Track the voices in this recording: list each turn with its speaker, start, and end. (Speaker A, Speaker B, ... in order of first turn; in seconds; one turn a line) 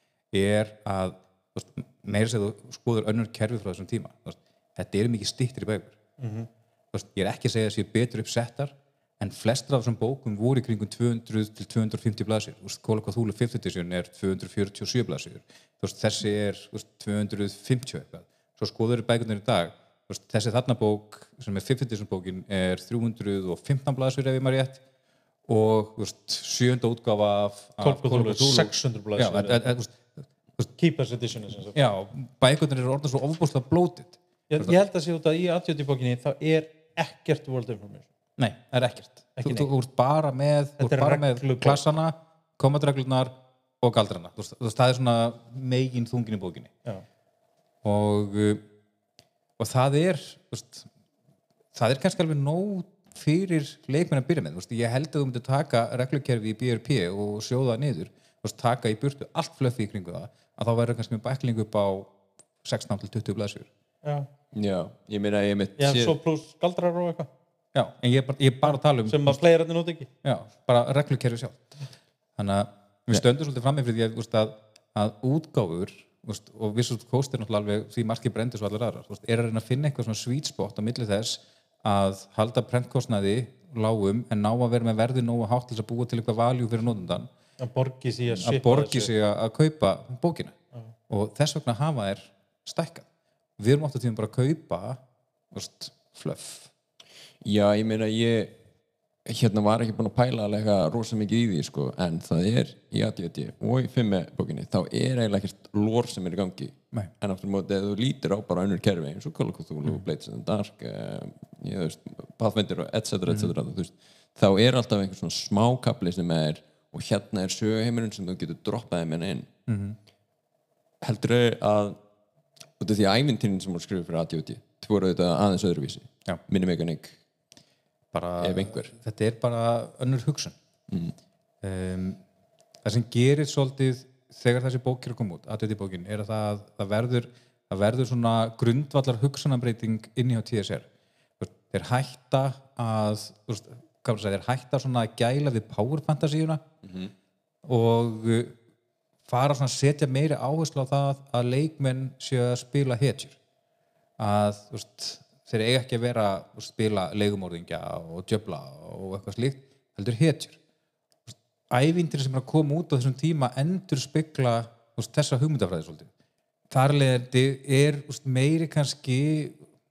Speaker A: 0.3-5.9
Speaker B: 6.2-6.5
Speaker A: 6.9-24.8
Speaker A: 25.5-30.7
Speaker B: 27.8-29.7
Speaker B: 30.8-31.8
Speaker A: 31.7-34.7
Speaker B: 34.5-38.1
Speaker A: 38.4-46.7
Speaker B: 39.4-39.7
Speaker B: 40.8-41.8
Speaker A: 47.8-48.6
Speaker A: 49.6-50.9
Speaker A: 51.7-62.1
Speaker A: 62.6-63.7
Speaker C: 64.5-66.2
Speaker B: 65.8-67.3
Speaker A: 67.7-69.4
Speaker B: 69.0-70.1
Speaker A: 70.2-71.7
Speaker A: 72.4-87.3
Speaker B: 87.6-89.1
Speaker A: 88.4-90.5
Speaker A: 91.1-93.0
Speaker A: 93.6-95.0
Speaker A: 95.5-96.7
Speaker C: 97.4-98.5
Speaker C: 99.2-119.5
Speaker A: 113.3-113.5
Speaker A: 119.7-120.0
Speaker C: 121.0-122.0
Speaker C: 122.8-127.2
Speaker A: 128.1-130.6
Speaker C: 128.4-128.9
Speaker C: 130.9-131.1
Speaker A: 131.6-132.2
Speaker A: 132.8-140.9
Speaker A: 141.4-146.6
Speaker C: 146.8-147.1
Speaker A: 147.7-148.6
Speaker A: 149.3-153.3
Speaker A: 154.2-160.6
Speaker A: 161.3-166.1
Speaker A: 166.7-169.6